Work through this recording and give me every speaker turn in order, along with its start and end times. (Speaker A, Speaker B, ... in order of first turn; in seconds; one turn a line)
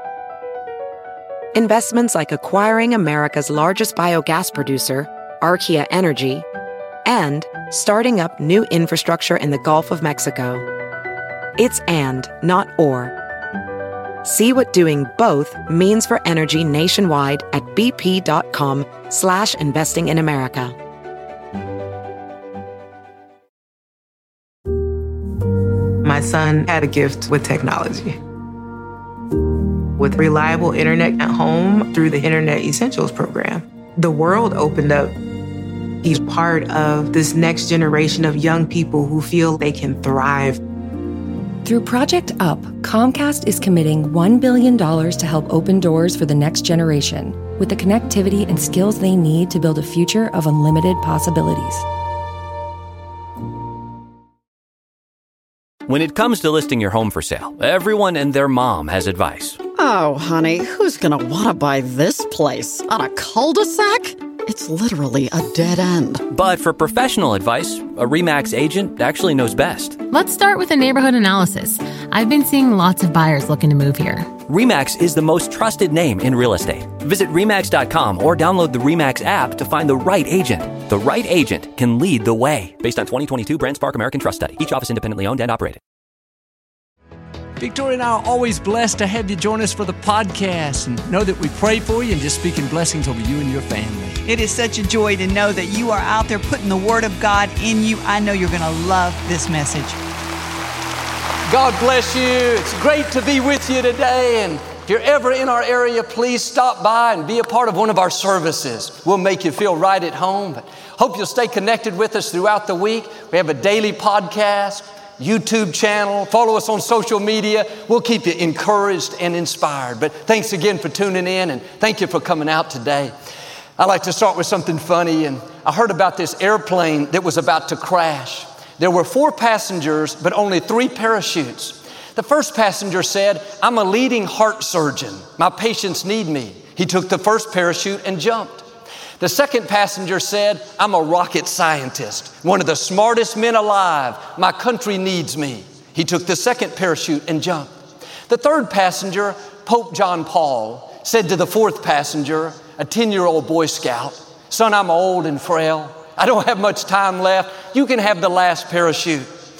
Speaker A: 1.5-6.5
Speaker A: 7.0-10.7
Speaker A: 11.6-13.2
Speaker A: 14.2-20.8
Speaker B: 26.0-28.2
Speaker B: 30.0-35.1
Speaker B: 36.0-40.6
Speaker C: 41.6-51.9
Speaker D: 55.9-59.6
Speaker E: 59.8-66.2
Speaker D: 66.2-70.0
Speaker F: 70.1-74.3
Speaker D: 74.5-85.8
Speaker G: 87.6-94.2
Speaker H: 94.3-100.0
Speaker G: 101.5-123.1
Speaker G: 123.8-138.7
Speaker G: 139.2-147.7
Speaker G: 148.3-159.3